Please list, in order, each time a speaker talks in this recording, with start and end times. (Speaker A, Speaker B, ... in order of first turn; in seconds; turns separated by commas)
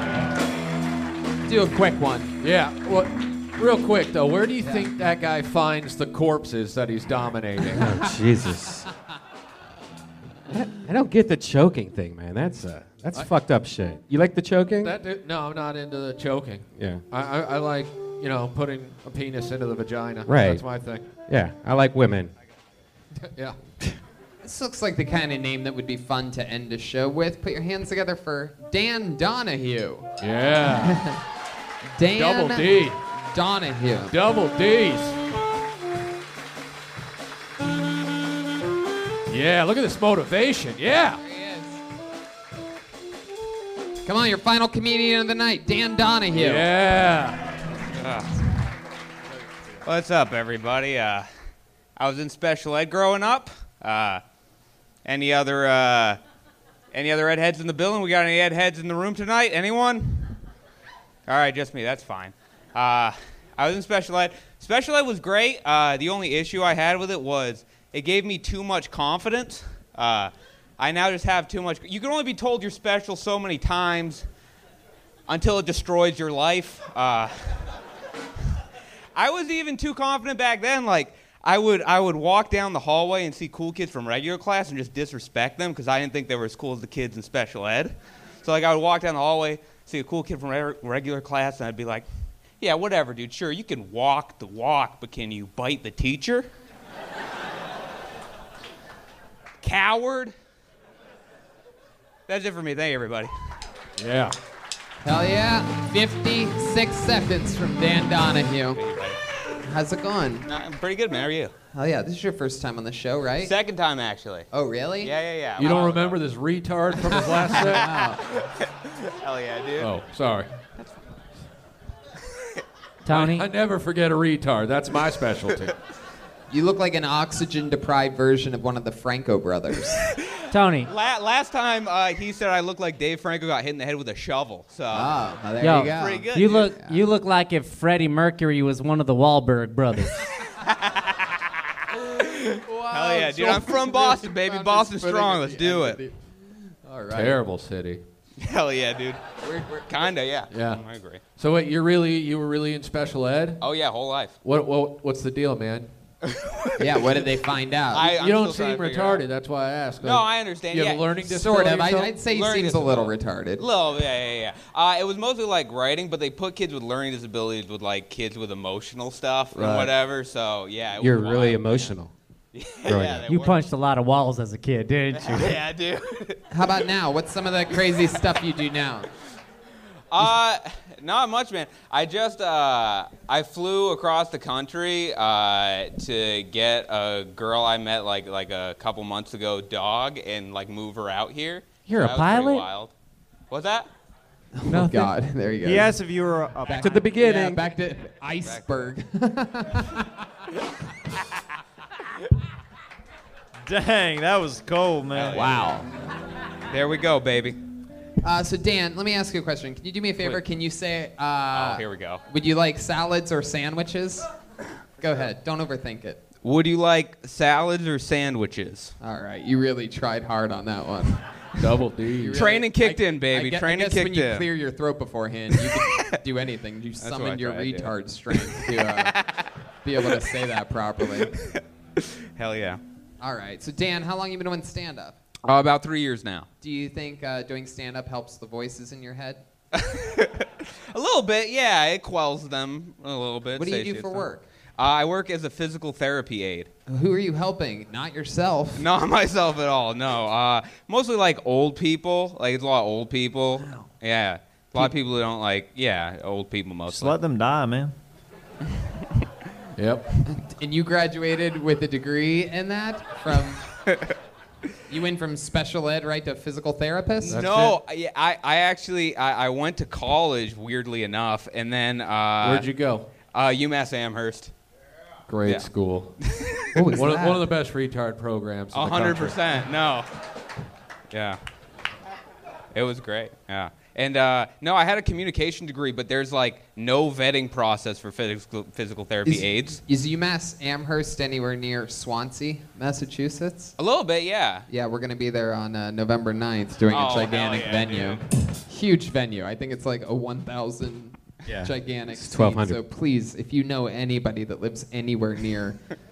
Speaker A: 1.4-2.3, Speaker B: 2.4-7.9, Speaker C: 7.7-8.8, Speaker C: 10.5-14.9, Speaker B: 14.8-21.1, Speaker C: 16.7-17.0, Speaker C: 20.2-20.7, Speaker C: 21.3-22.3, Speaker B: 23.2-23.6, Speaker A: 24.4-30.1, Speaker B: 30.2-31.0, Speaker A: 30.6-31.2, Speaker A: 31.9-34.1, Speaker B: 32.1-33.0, Speaker B: 34.1-35.2, Speaker B: 39.3-41.2, Speaker A: 41.2-41.8, Speaker A: 44.0-46.7, Speaker B: 46.3-47.4, Speaker D: 47.9-48.3, Speaker D: 49.8-51.3, Speaker D: 52.0-54.2, Speaker D: 55.0-56.2, Speaker D: 56.9-60.4, Speaker D: 61.3-74.2, Speaker D: 75.3-77.5, Speaker D: 79.1-92.1, Speaker D: 92.6-96.5, Speaker D: 99.6-100.3, Speaker D: 102.3-103.3, Speaker B: 104.0-104.3, Speaker A: 105.0-108.8, Speaker D: 108.7-109.2, Speaker A: 109.6-110.5, Speaker D: 110.4-111.5, Speaker A: 111.7-113.5, Speaker D: 113.4-114.5, Speaker A: 114.5-115.8, Speaker D: 115.0-116.2, Speaker B: 115.6-117.9, Speaker A: 117.1-118.2, Speaker D: 117.5-119.9, Speaker B: 119.8-120.5, Speaker E: 123.0-123.5, Speaker B: 123.1-125.7, Speaker A: 126.5-130.0, Speaker E: 130.5-130.9, Speaker D: 130.8-135.2, Speaker A: 134.9-137.0, Speaker E: 135.6-140.2, Speaker D: 135.8-136.7, Speaker D: 140.6-141.5, Speaker D: 142.2-146.0, Speaker A: 142.6-146.2, Speaker A: 146.8-147.4, Speaker B: 147.1-148.0, Speaker D: 148.4-151.2, Speaker A: 149.4-149.8, Speaker B: 150.5-150.8, Speaker B: 151.3-153.6, Speaker D: 153.6-154.3, Speaker B: 154.4-155.9, Speaker D: 156.2-157.1, Speaker A: 156.8-158.1, Speaker D: 157.9-159.2, Speaker B: 158.1-162.1, Speaker D: 160.0-161.1, Speaker A: 161.2-163.6, Speaker D: 162.2-171.9, Speaker C: 169.5-169.9, Speaker C: 171.0-172.1, Speaker D: 172.5-173.6, Speaker C: 172.9-173.2, Speaker E: 173.3-175.6, Speaker D: 175.1-176.4, Speaker A: 176.5-179.1, Speaker D: 180.1-192.9, Speaker E: 191.8-192.7, Speaker D: 193.5-193.9, Speaker A: 194.5-195.9, Speaker E: 194.7-195.1, Speaker F: 195.6-197.0, Speaker A: 196.7-200.0, Speaker C: 196.8-197.6, Speaker F: 203.7-205.6, Speaker D: 205.1-205.6, Speaker A: 205.3-205.8, Speaker D: 206.7-207.6, Speaker A: 208.2-214.3, Speaker D: 211.5-212.2, Speaker A: 215.0-216.2, Speaker D: 216.4-218.9, Speaker A: 219.0-221.2, Speaker B: 221.6-222.4, Speaker A: 222.1-229.1, Speaker D: 222.3-224.5, Speaker D: 225.7-226.1, Speaker D: 227.0-229.4, Speaker A: 229.8-231.3, Speaker D: 231.2-232.8, Speaker A: 233.2-235.2, Speaker D: 235.4-236.5, Speaker A: 236.6-239.4, Speaker D: 239.7-246.7, Speaker A: 243.5-244.4, Speaker A: 246.9-248.9, Speaker D: 248.8-257.1, Speaker F: 256.9-257.9, Speaker B: 259.8-260.1, Speaker A: 260.3-263.6, Speaker A: 264.9-267.6, Speaker D: 267.2-272.7, Speaker B: 267.3-267.8, Speaker B: 272.4-273.1, Speaker D: 273.2-274.5, Speaker B: 275.3-276.1, Speaker D: 275.4-275.7, Speaker D: 276.2-276.8, Speaker A: 276.8-277.4, Speaker B: 276.8-279.4, Speaker D: 278.7-280.1, Speaker D: 281.1-281.4, Speaker D: 282.7-289.8, Speaker A: 289.2-293.7, Speaker D: 293.8-294.7, Speaker A: 294.7-305.8, Speaker D: 296.9-298.2, Speaker C: 301.5-302.8